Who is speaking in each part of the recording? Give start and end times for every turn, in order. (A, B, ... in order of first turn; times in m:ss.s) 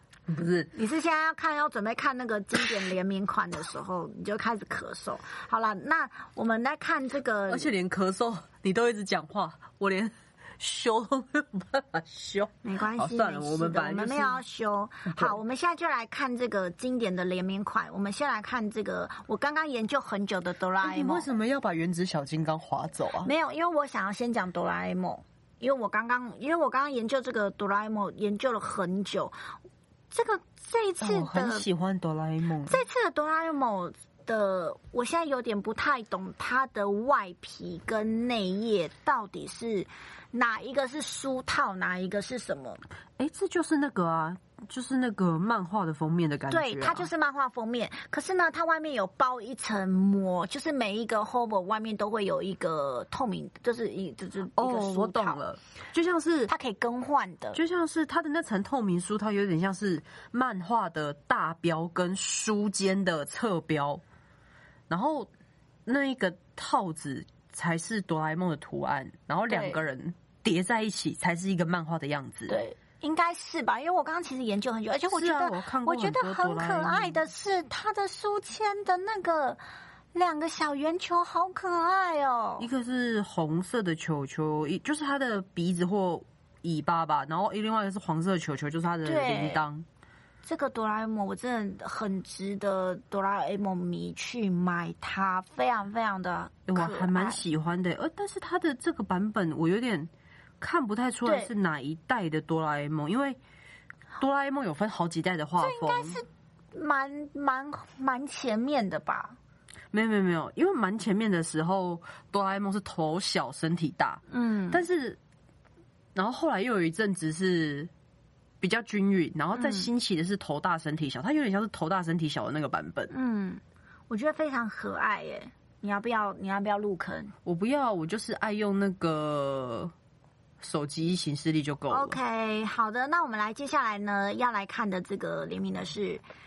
0:00.3-0:00.7 A
0:00.7-0:07.7 B
0:07.5-0:14.4 A
0:12.6-0:21.3 B
0:15.1-0:15.4 A
0:20.8-0:23.3 A
0:23.2-0:29.3 B
0:30.1-0:31.6 B
0:31.0-0:32.8 A
0:32.6-0:42.8 B
0:43.2-0:47.1 A
0:46.5-0:55.4 B
0:54.6-0:56.5 A
0:56.5-0:57.6 B
0:57.5-1:04.0 A
1:04.9-1:05.3 A
1:05.8-1:12.6 A
1:09.5-1:09.8 B
1:12.5-1:19.6 B
1:15.1-1:17.2 A
1:20.1-1:22.7 B
1:22.6-1:29.8 A
1:29.0-1:29.6 B
1:30.4-1:37.4 B
1:36.7-1:43.4 A
1:41.2-1:41.5 B
1:44.2-1:46.2 A
1:45.6-1:49.4 B
1:49.9-1:55.2 A
1:54.3-1:54.8 B
1:56.1-1:57.9 A
1:58.6-2:03.1 A
1:59.5-1:59.9 B
2:03.1-2:07.3 B
2:07.4-2:09.9 A
2:10.6-2:12.2 A
2:11.9-2:16.2 B